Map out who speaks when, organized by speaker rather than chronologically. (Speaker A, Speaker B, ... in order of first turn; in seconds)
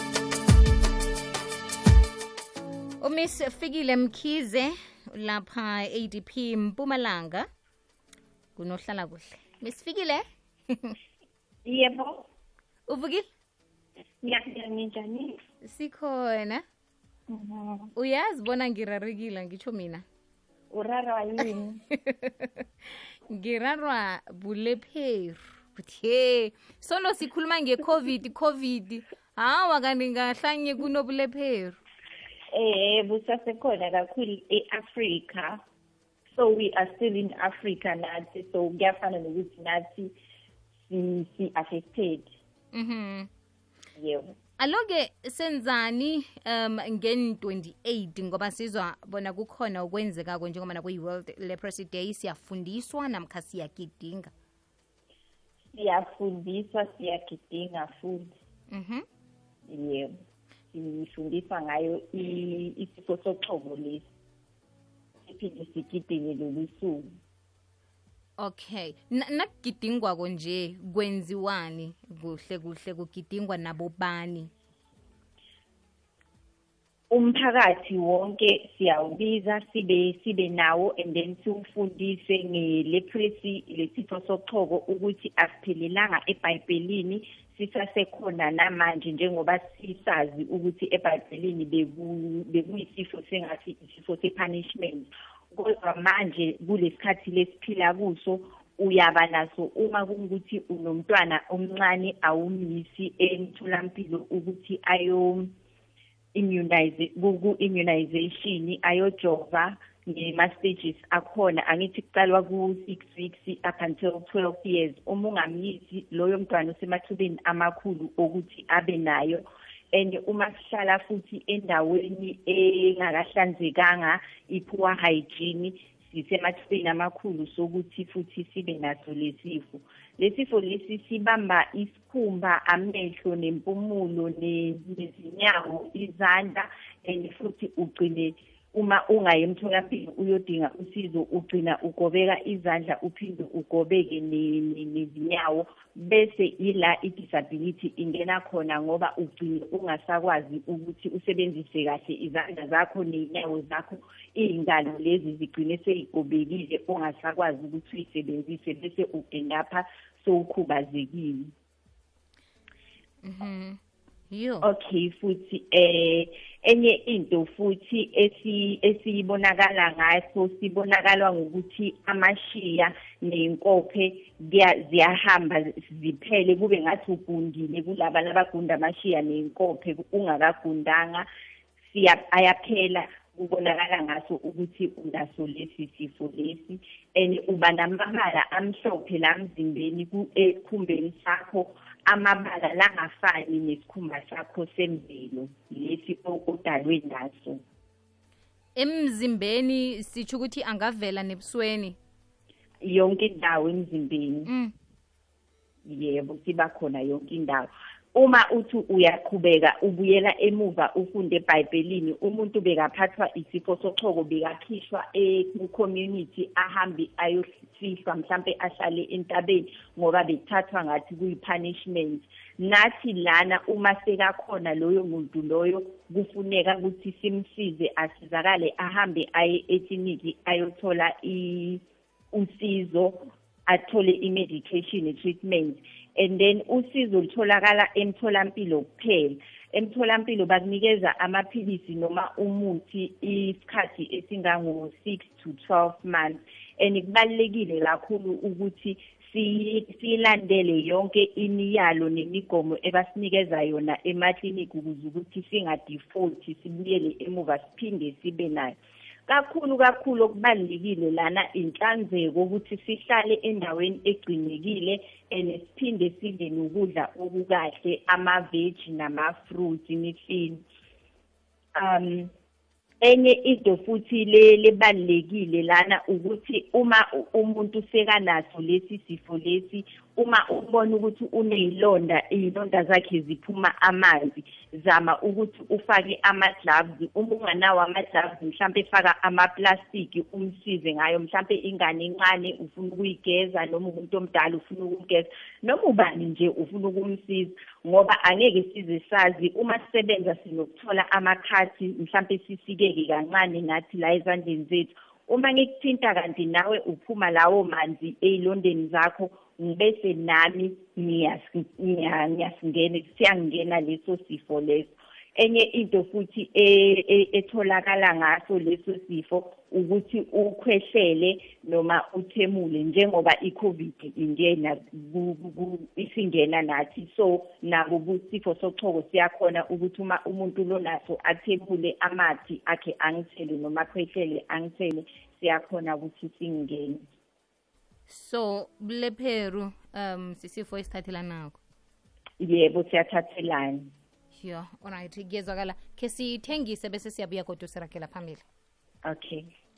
Speaker A: 3.0-7.5, 8.6-11.0, 12.9-13.3, 15.6-16.6, 18.0-20.0, 21.9-31.8, 42.7-43.3, 44.6-54.3, 58.7-59.0, 68.4-74.5, 163.2-163.8, 164.3-164.7, 198.8-202.0, 204.5-204.7, 338.1-341.6, 344.3-348.4
Speaker B: 11.7-12.2, 14.2-15.3, 17.3-17.9, 20.7-21.8, 32.5-35.6, 36.4-40.1, 40.9-42.3, 44.0-44.3, 55.7-58.3, 59.7-60.1, 60.7-64.0, 65.3-67.1, 77.1-105.5, 106.3-161.5, 164.6-181.2, 181.9-197.6, 202.8-204.5, 205.9-258.8, 259.3-270.6, 271.8-272.3, 273.0-337.0, 342.4-343.9, 349.1-349.4